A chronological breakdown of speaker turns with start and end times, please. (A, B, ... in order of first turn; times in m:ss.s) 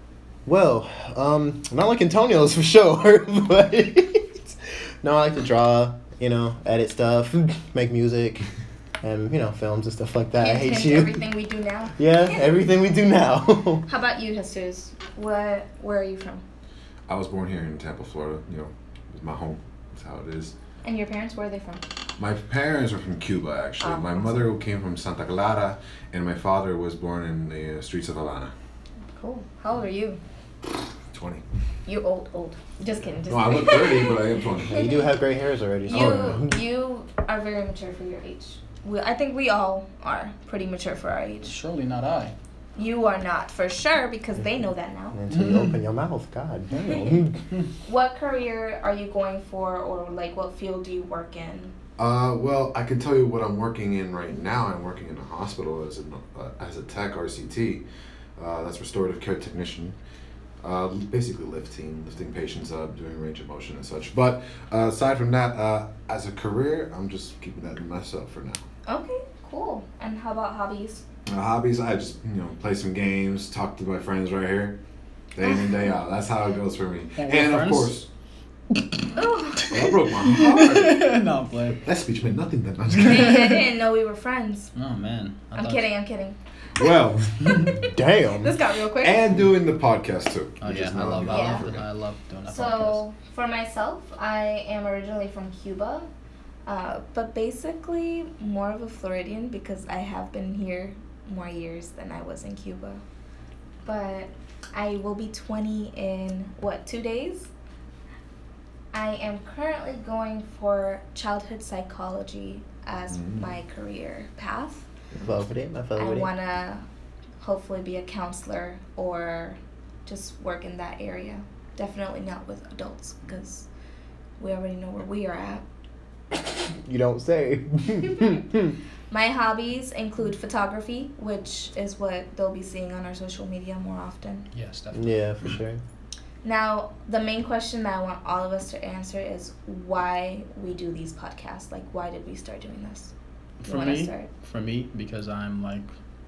0:00.4-0:08.4 A
0:09.0-0:11.2 A
0:10.4-0:12.4 B
0:12.0-0:13.8 A
0:13.8-0:16.4 B
0:17.1-0:20.5 C
0:20.8-0:21.8 B
0:22.2-0:28.5 C
0:23.8-0:24.4 B
0:29.1-0:30.2 B
0:31.1-0:31.4 C
0:31.8-0:35.1 B
0:33.3-0:34.9 C
0:34.7-0:36.6 A
0:35.8-0:41.5 B
0:35.9-0:36.4 C
0:41.4-0:42.3 D
0:42.8-0:45.2 B
0:45.1-0:47.4 A
0:45.3-0:45.7 D
0:46.8-0:47.2 B
0:47.8-0:51.7 B
0:52.0-0:57.8 C
0:58.4-1:00.0 C
1:00.6-1:08.6 C
1:08.8-1:11.0 B
1:11.3-1:14.8 C
1:15.3-1:18.1 C
1:15.4-1:15.7 B
1:17.2-1:18.0 D
1:19.1-1:19.7 B
1:19.7-1:21.2 C
1:19.7-1:21.8 D
1:21.8-1:23.6 C
1:23.0-1:24.7 B
1:24.7-1:25.9 D
1:25.5-1:26.8 B
1:26.8-1:27.9 C
1:27.8-1:28.5 A
1:28.4-1:29.2 B
1:29.0-1:31.8 C
1:30.6-1:33.0 D
1:31.2-1:31.7 B
1:32.5-1:36.1 B
1:36.6-1:43.0 B
1:43.8-1:47.5 B
1:48.9-1:54.8 B
1:53.1-1:53.5 C
1:55.2-1:56.3 A
1:56.0-1:56.8 B
1:57.4-2:03.7 B
2:04.4-2:05.6 B
2:06.3-2:08.7 A
2:09.1-2:14.4 B
2:14.5-2:15.2 D
2:14.9-2:15.8 A
2:16.4-2:23.1 B
2:23.6-2:25.9 D
2:23.6-2:24.3 B